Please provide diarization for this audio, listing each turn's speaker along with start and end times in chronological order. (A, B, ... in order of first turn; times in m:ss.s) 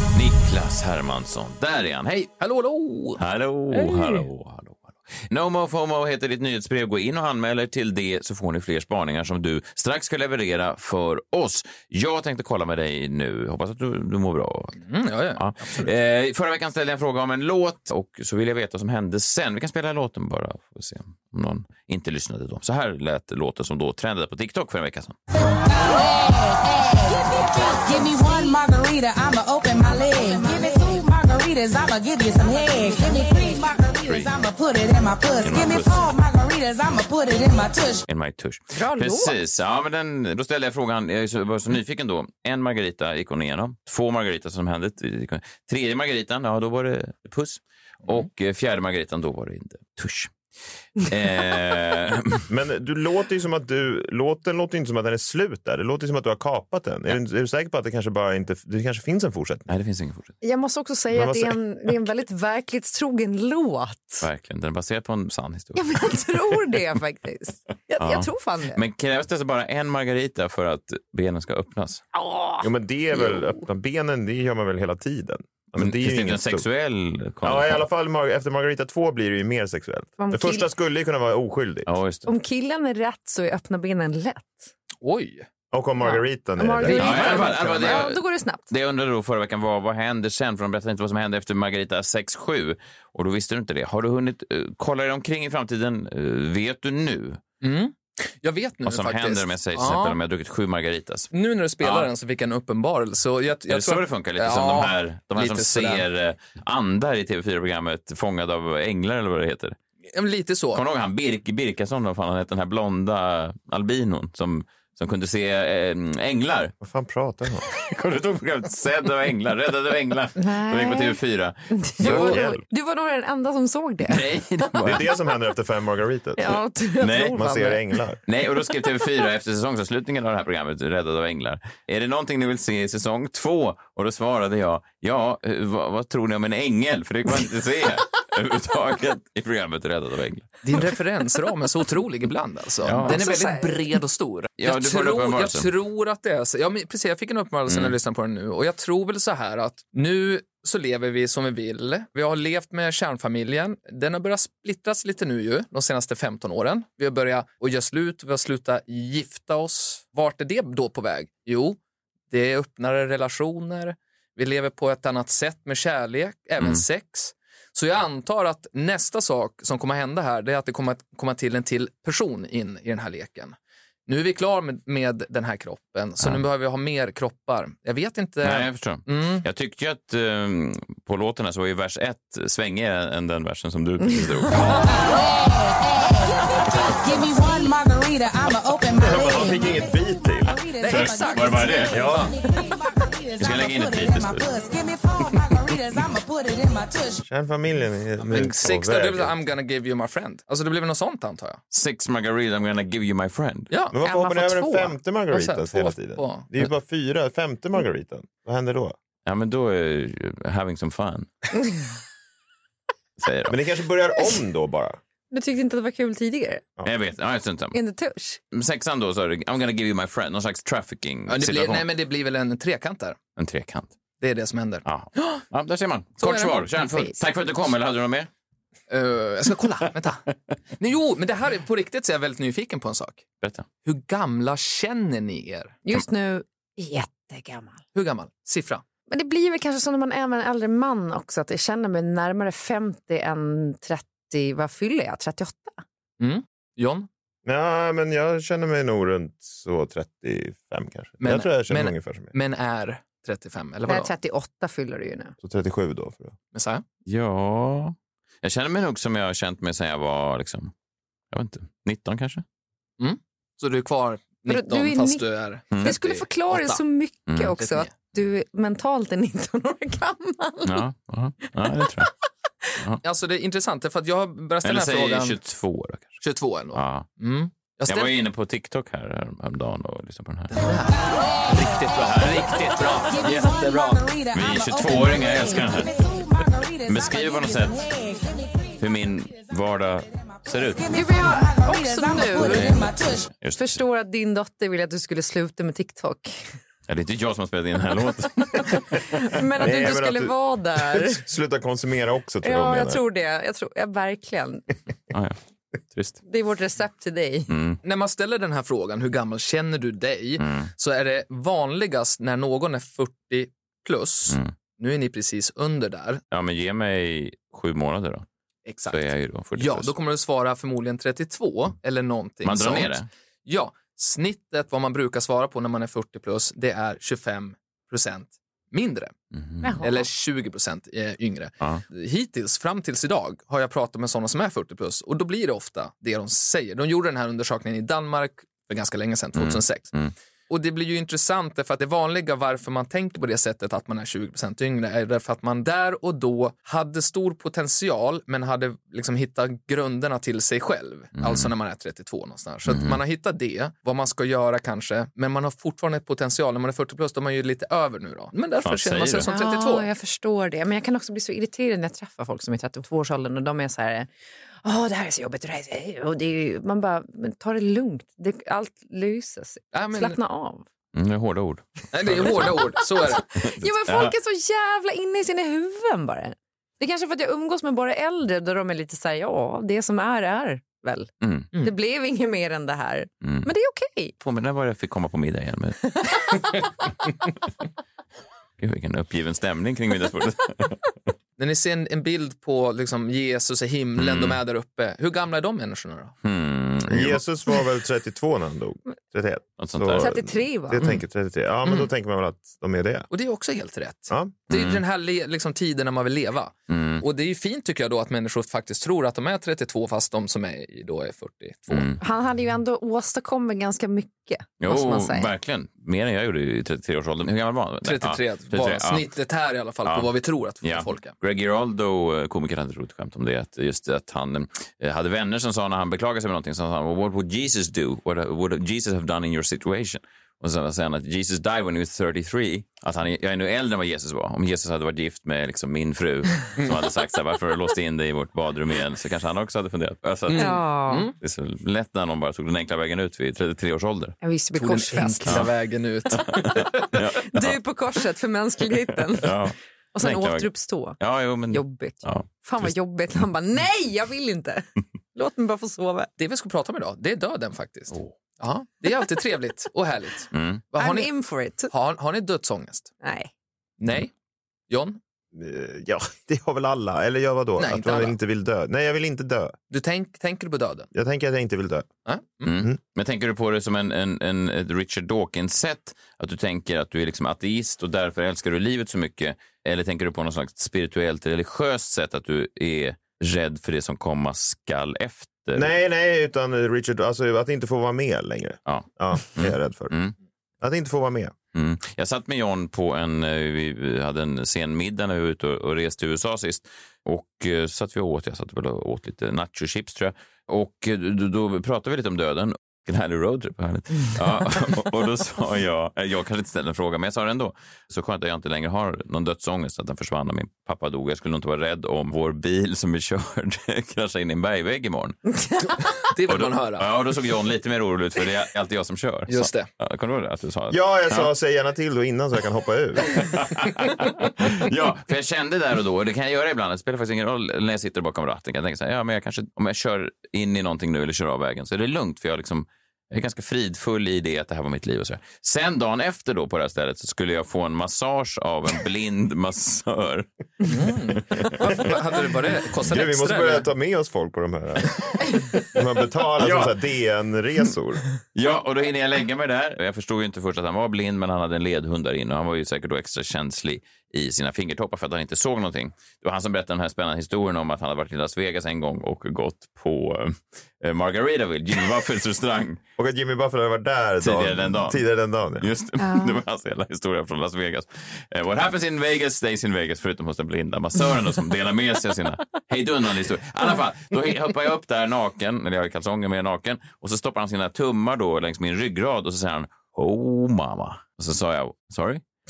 0:00.1-0:02.3 A
0:02.4-0:04.3 B
0:03.2-0:14.8 A
0:14.8-0:15.9 B
0:15.4-0:25.2 A
0:25.4-0:38.0 C
0:35.4-0:36.1 A
0:38.1-0:50.3 A
0:38.7-0:39.3 D
0:51.0-0:52.5 A
0:52.5-0:59.7 E
0:59.7-1:00.4 A
1:00.4-1:04.3 D
1:01.1-1:01.9 E
1:04.2-1:06.8 A
1:05.8-1:08.8 D
1:08.0-1:12.0 A
1:12.1-1:13.6 D
1:12.6-1:16.7 E
1:15.8-1:17.8 A
1:17.4-1:21.9 E
1:20.2-1:20.7 D
1:21.9-1:22.3 A
1:22.3-1:24.7 D
1:25.0-1:25.5 B
1:25.7-1:27.7 E
1:26.0-1:28.7 D
1:26.8-1:37.4 A
1:27.6-1:28.0 B
1:37.6-1:40.2 B
1:38.8-1:41.3 A
1:41.3-1:46.0 B
1:41.8-1:42.1 A
1:43.7-1:49.8 A
1:50.1-1:50.8 B
1:50.8-1:56.7 A
1:56.8-1:57.7 E
1:57.6-2:02.5 A
2:00.4-2:01.2 D
2:01.7-2:04.8 D
2:02.0-2:02.6 E
2:04.0-2:05.1 A
2:04.8-2:06.6 E
2:06.4-2:07.8 D
2:07.0-2:07.4 A
2:07.3-2:08.2 E
2:08.3-2:20.6 A
2:20.6-2:41.8 B
2:22.8-2:23.2 A
2:23.0-2:23.8 D
2:24.6-2:25.7 A
2:27.7-2:28.0 A
2:42.3-2:53.6 B
2:54.1-2:59.4 B
2:58.4-3:04.9 A
3:04.6-3:17.2 C
3:09.0-3:10.6 E
3:10.8-3:12.3 B
3:10.9-3:12.3 A
3:13.4-3:14.5 A
3:17.3-3:19.3 E
3:18.3-3:21.6 B
3:21.7-3:23.7 A
3:23.7-3:24.0 B
3:23.9-3:29.0 E
3:24.0-3:25.0 D
3:25.3-3:26.5 B
3:29.3-3:31.3 A
3:33.2-3:33.6 A
3:33.5-3:35.0 E
3:35.3-3:36.6 D
3:36.8-3:37.8 A
3:37.7-3:38.4 D
3:38.5-3:41.9 A
3:41.3-3:43.2 B
3:43.4-3:43.9 A
3:44.2-3:45.4 B
3:44.8-3:48.3 A
3:46.2-3:46.6 B
3:46.8-3:47.2 D
3:48.9-3:50.2 B
3:50.8-3:53.2 B
3:53.8-3:55.8 B
3:55.9-3:57.8 D
3:57.9-3:58.8 B
3:59.1-4:05.8 D
4:06.2-4:07.1 B
4:07.4-4:12.3 E
4:11.2-4:14.1 B
4:13.9-4:15.4 D
4:15.4-4:16.4 E
4:16.5-4:16.8 B
4:17.1-4:20.7 A
4:21.3-4:22.4 A
4:23.0-4:26.8 B
4:24.5-4:25.2 D
4:25.8-4:30.8 D
4:27.3-4:27.6 A
4:27.6-4:27.9 B
4:30.6-4:32.1 A
4:31.6-4:32.1 D
4:33.0-4:35.4 B
4:34.6-4:36.2 A
4:36.2-4:38.1 B
4:36.7-4:37.1 A
4:37.9-4:40.6 A
4:40.5-4:44.0 B
4:42.1-4:42.5 A
4:42.8-4:48.8 C
4:44.3-4:45.9 A
4:46.9-4:47.9 A
4:48.8-4:51.0 A
4:50.2-4:53.3 C
4:50.9-4:52.9 D
4:52.4-4:53.8 A
4:53.6-4:56.4 D
4:56.9-4:59.0 A
4:58.6-5:01.2 D
4:59.6-5:03.0 E
5:02.4-5:04.8 D
5:05.1-5:05.4 A
5:05.9-5:06.2 A
5:06.2-5:07.5 D
5:07.5-5:07.8 A
5:07.8-5:16.2 B
5:10.4-5:10.7 A
5:16.3-5:18.2 A
5:18.7-5:29.1 B
5:18.9-5:19.9 A
5:22.4-5:23.1 A
5:29.3-5:29.8 A
5:29.6-5:30.0 D
5:29.8-5:39.9 B
5:39.4-5:40.1 A
5:40.5-5:59.9 B
5:51.2-5:51.5 A
5:52.7-5:53.0 A
5:58.6-5:59.3 A
5:59.2-6:04.1 D
6:04.6-6:10.7 D
6:09.7-6:10.2 B
6:11.0-6:12.6 A
6:11.9-6:13.3 B
6:13.0-6:24.2 D
6:13.3-6:14.1 A
6:21.2-6:21.5 A
6:23.2-6:23.5 A
6:24.2-6:25.9 A
6:26.0-6:26.6 D
6:28.6-6:30.8 A
6:31.4-6:36.1 B
6:34.0-6:34.4 A
6:36.2-6:37.2 A
6:36.9-6:43.1 E
6:39.6-6:40.2 A
6:40.0-6:40.9 D
6:41.6-6:41.9 B
6:43.1-6:52.0 B
6:44.1-6:44.4 E
6:44.5-6:44.8 A
6:46.7-6:47.0 A
6:51.7-6:52.0 A
6:52.0-6:55.3 D
6:54.6-6:59.1 A
6:57.8-7:01.1 B
6:59.8-7:00.1 A
7:00.6-7:20.6 A
7:20.3-7:21.2 B
7:20.3-7:21.1 D
7:21.2-7:24.2 A
7:24.2-7:25.5 D
7:24.6-7:27.0 B
7:26.1-7:27.6 A
7:27.2-7:31.0 D
7:29.1-7:32.7 A
7:31.5-7:36.1 D
7:36.2-7:41.1 B
7:40.3-7:40.6 A
7:40.8-7:41.7 D
7:41.7-7:42.9 B
7:43.0-7:43.3 D
7:43.8-7:44.1 B
7:44.7-7:45.0 B
7:45.3-7:49.6 E
7:47.6-7:48.2 B
7:49.7-7:50.9 B
7:50.9-7:51.9 E
7:52.1-7:52.5 B
7:52.4-8:05.7 A
8:05.6-8:09.9 E
8:08.7-8:10.2 A
8:10.6-8:11.3 E
8:11.5-8:35.2 A
8:35.4-8:35.9 D
8:36.0-8:36.9 B
8:36.3-8:41.3 A
8:39.3-8:39.7 B
8:40.7-8:43.4 E
8:43.1-9:00.3 A
9:00.6-9:03.7 B
9:02.8-9:08.0 E
9:06.4-9:06.7 A
9:08.3-9:22.8 A
9:23.0-9:25.7 E
9:24.2-9:25.0 A
9:25.6-9:42.2 A
9:26.0-9:26.4 D